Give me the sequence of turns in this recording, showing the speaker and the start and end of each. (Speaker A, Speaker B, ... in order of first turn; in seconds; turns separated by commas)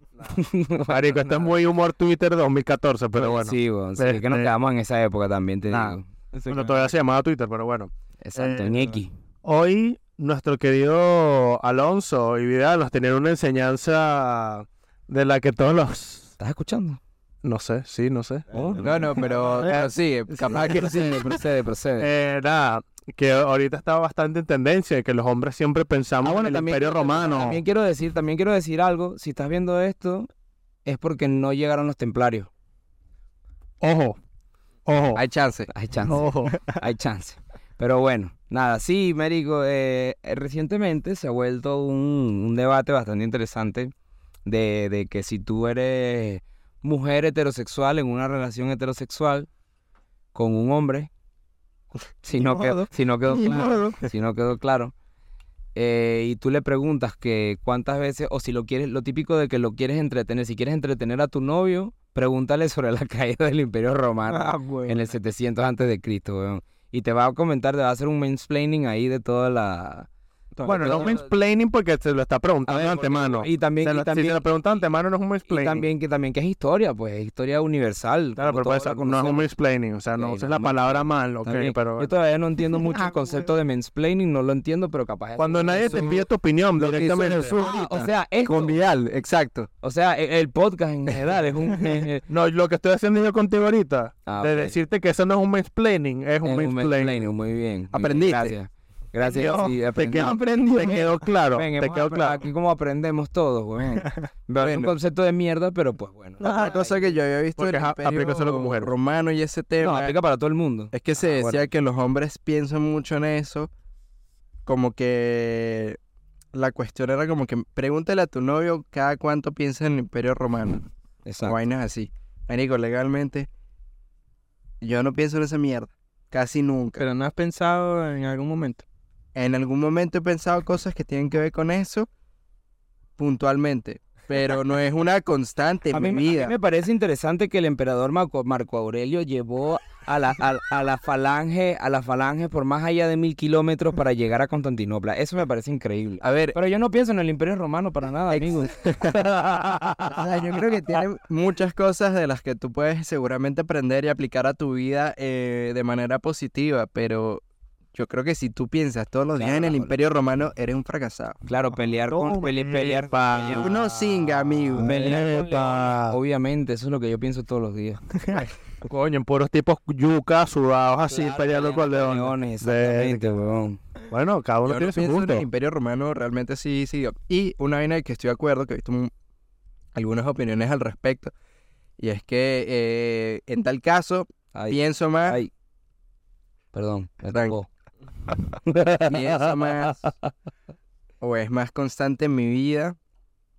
Speaker A: 0.2-1.5, Speaker B: 0.9-4.5, Speaker A: 3.2-6.1, Speaker B: 5.7-16.3, Speaker C: 6.3-6.9, Speaker A: 8.2-9.1, Speaker A: 16.4-17.0, Speaker B: 17.4-18.9, Speaker C: 18.5-19.7, Speaker D: 18.8-21.6, Speaker B: 19.5-19.9, Speaker A: 20.5-22.1, Speaker B: 22.0-27.6, Speaker A: 26.2-30.3, Speaker A: 30.8-32.5, Speaker B: 33.8-34.2, Speaker B: 34.9-35.2, Speaker D: 35.1-35.7, Speaker A: 35.7-43.9, Speaker B: 36.0-36.6, Speaker A: 44.4-49.5, Speaker A: 50.3-51.1, Speaker A: 52.2-54.9, Speaker C: 52.4-53.9, Speaker A: 55.7-70.1, Speaker C: 64.3-65.1, Speaker C: 70.5-71.2, Speaker B: 70.6-75.8, Speaker A: 70.7-71.2, Speaker A: 72.7-74.4, Speaker A: 75.5-79.4, Speaker B: 78.4-82.1, Speaker A: 80.1-86.2, Speaker B: 85.4-87.6, Speaker D: 85.9-86.2, Speaker D: 86.8-89.7, Speaker A: 87.5-88.8, Speaker A: 89.8-92.2, Speaker B: 92.3-97.2, Speaker A: 94.2-94.8, Speaker A: 96.4-100.4, Speaker D: 97.9-98.5, Speaker C: 99.4-99.7, Speaker B: 99.9-102.4, Speaker A: 101.5-107.1, Speaker D: 104.6-104.9, Speaker C: 106.4-106.8, Speaker D: 106.4-110.2, Speaker B: 107.6-108.9, Speaker A: 109.8-111.6, Speaker D: 110.9-113.7, Speaker D: 114.7-116.0, Speaker D: 116.5-120.8, Speaker A: 121.2-121.6, Speaker D: 121.4-123.5, Speaker D: 124.8-127.0, Speaker C: 127.0-128.8, Speaker D: 129.3-132.1, Speaker D: 133.2-136.5, Speaker A: 135.9-150.2, Speaker D: 146.2-146.6, Speaker D: 148.3-149.2, Speaker B: 149.3-150.1, Speaker D: 150.1-157.4, Speaker D: 157.9-161.4, Speaker A: 159.4-159.9, Speaker A: 161.4-163.7, Speaker C: 162.1-162.5, Speaker B: 162.6-166.2, Speaker D: 163.5-164.9, Speaker A: 164.8-168.4, Speaker B: 168.8-173.4, Speaker A: 171.1-173.8, Speaker B: 174.1-175.4, Speaker D: 174.6-179.1, Speaker D: 179.9-181.3, Speaker D: 182.0-185.4, Speaker A: 184.5-185.5, Speaker A: 186.7-187.7, Speaker D: 187.3-187.6, Speaker A: 188.6-189.2, Speaker D: 189.1-190.0, Speaker D: 191.2-193.0